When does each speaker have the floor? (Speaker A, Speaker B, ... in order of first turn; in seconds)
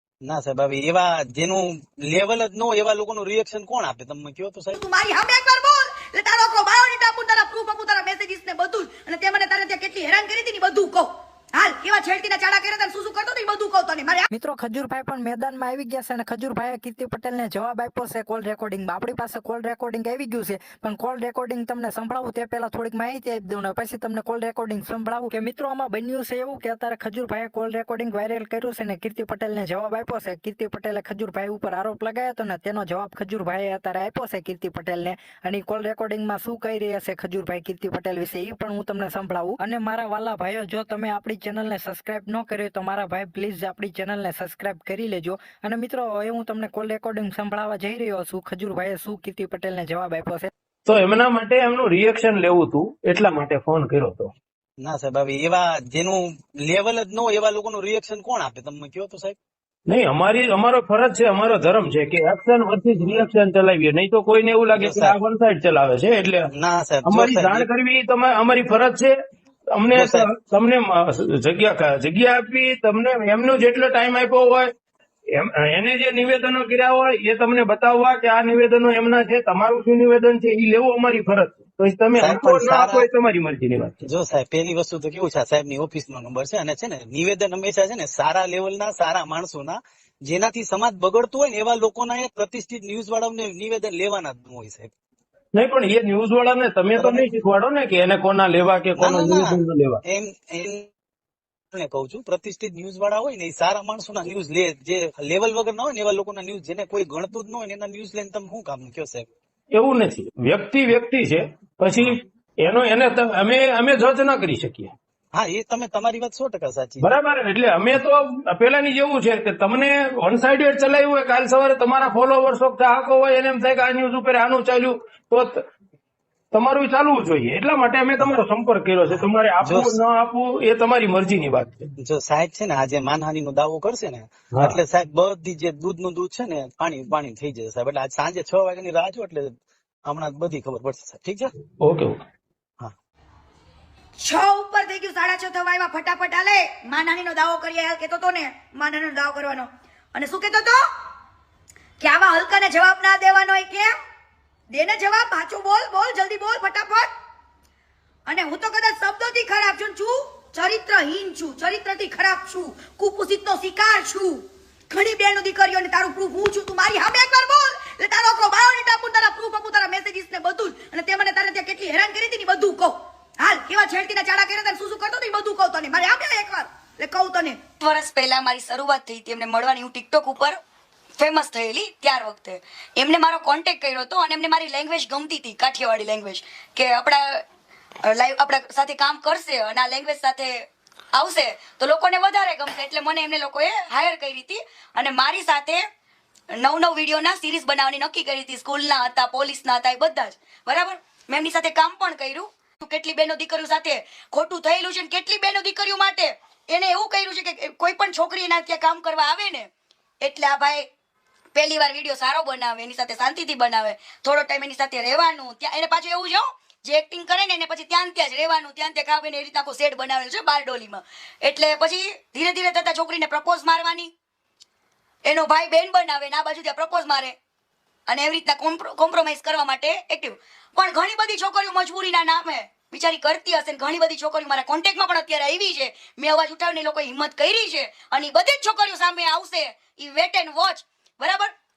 Speaker A: 0.2-4.8, 54.8-59.4, 64.8-65.2, 66.5-67.7, 69.9-70.3, 82.2-83.1, 84.0-94.9, 96.9-97.3, 99.0-100.9, 101.7-109.3, 115.3-117.1, 129.1-130.0, 132.0-139.5, 140.1-141.5
Speaker B: 4.8-14.3, 144.2-150.8, 152.0-153.9, 154.7-157.1, 158.3-164.4, 164.9-177.6
Speaker C: 14.3-50.5
Speaker D: 50.9-54.3, 59.9-66.5, 67.0-69.1, 69.7-74.7, 75.3-84.1, 95.5-100.0, 109.8-114.9, 117.0-125.6, 126.5-131.9, 134.5-134.8, 141.8-142.2
Speaker E: 177.8-180.6, 181.2-187.4, 188.0-195.8, 196.6-209.7, 210.2-210.9, 211.5-224.1, 225.2-227.4, 228.1-241.5